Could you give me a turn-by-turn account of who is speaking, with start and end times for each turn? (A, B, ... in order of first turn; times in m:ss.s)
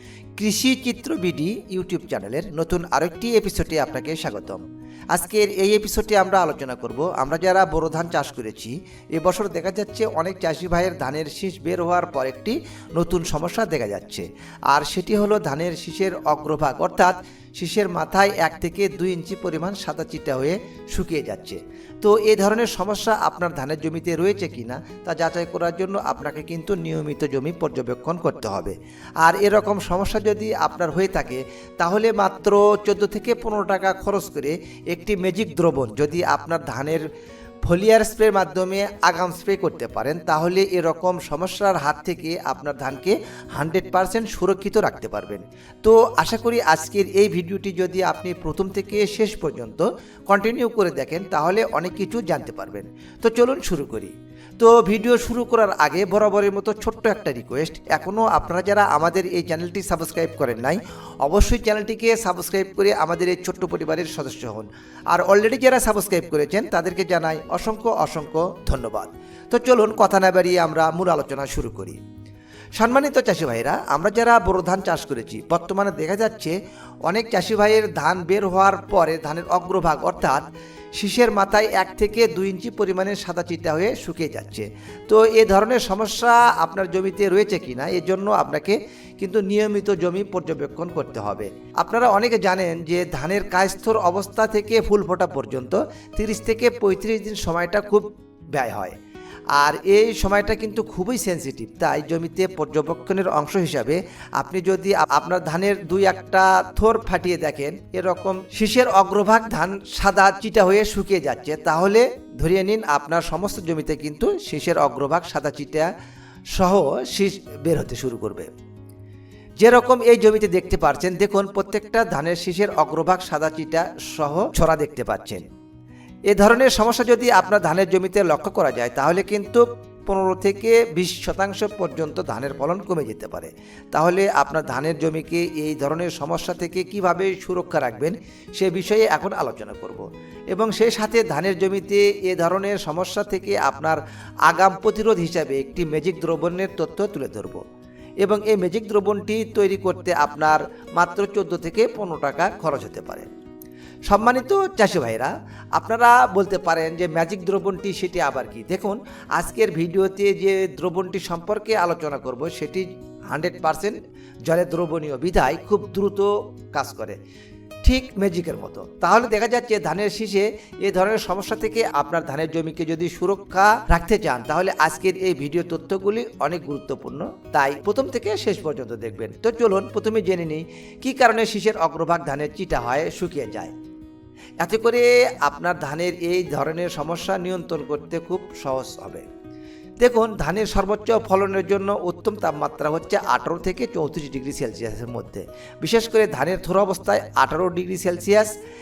0:00.4-0:37.0 A
0:37.7-1:12.0 A
1:12.8-1:16.6 A
1:17.1-1:39.0 A
1:39.6-1:55.9 A
1:56.6-1:58.5 A
1:59.6-2:05.4 A
2:06.3-2:27.6 A
2:28.2-2:33.3 A
2:34.1-2:47.2 A
2:47.8-3:03.7 A
3:04.6-3:09.2 A
3:10.0-3:18.5 A